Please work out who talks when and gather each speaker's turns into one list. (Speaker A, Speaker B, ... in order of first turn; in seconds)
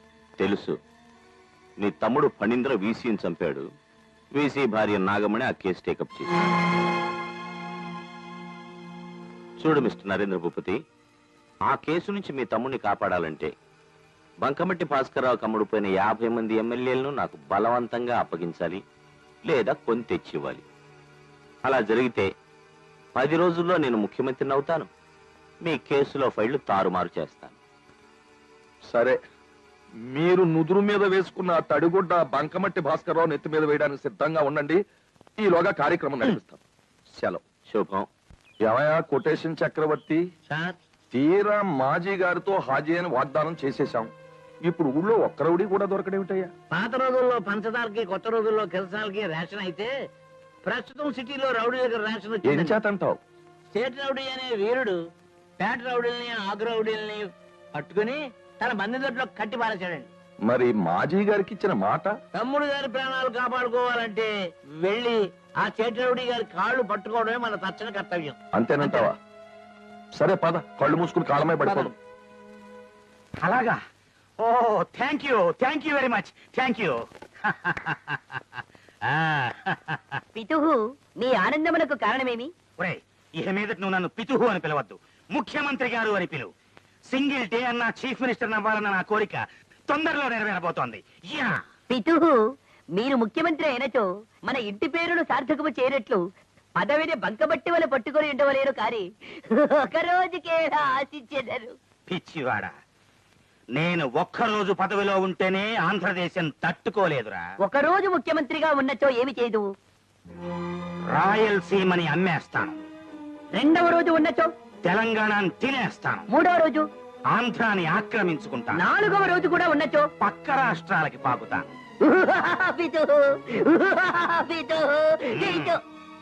Speaker A: 0.4-0.8, 1.8-3.6, 4.3-6.3, 9.6-10.8, 11.7-13.5, 14.4-18.8, 19.4-20.6, 21.6-22.3, 23.1-24.9, 25.6-27.6, 37.7-38.1
Speaker B: 28.9-29.2, 30.1-34.8, 35.4-36.6, 38.6-40.2, 41.1-44.1, 44.6-46.5, 52.4-53.2, 60.4-62.1, 68.5-69.2, 70.1-71.9
Speaker C: 40.5-40.8, 46.7-49.9, 50.6-52.8, 53.7-55.0, 55.6-60.1, 62.3-69.1
Speaker D: 71.7-71.9, 80.3-82.5, 91.9-92.4, 92.9-96.2, 96.8-99.0, 99.6-101.8, 107.6-109.7, 113.5-114.5, 116.3-116.9, 118.7-120.1, 122.0-125.8
Speaker E: 73.4-73.8, 74.4-80.2, 82.8-86.5, 87.1-91.6, 102.1-102.7, 103.7-107.4, 111.1-112.8, 114.8-116.3, 117.3-118.8, 120.2-121.8, 125.3-125.7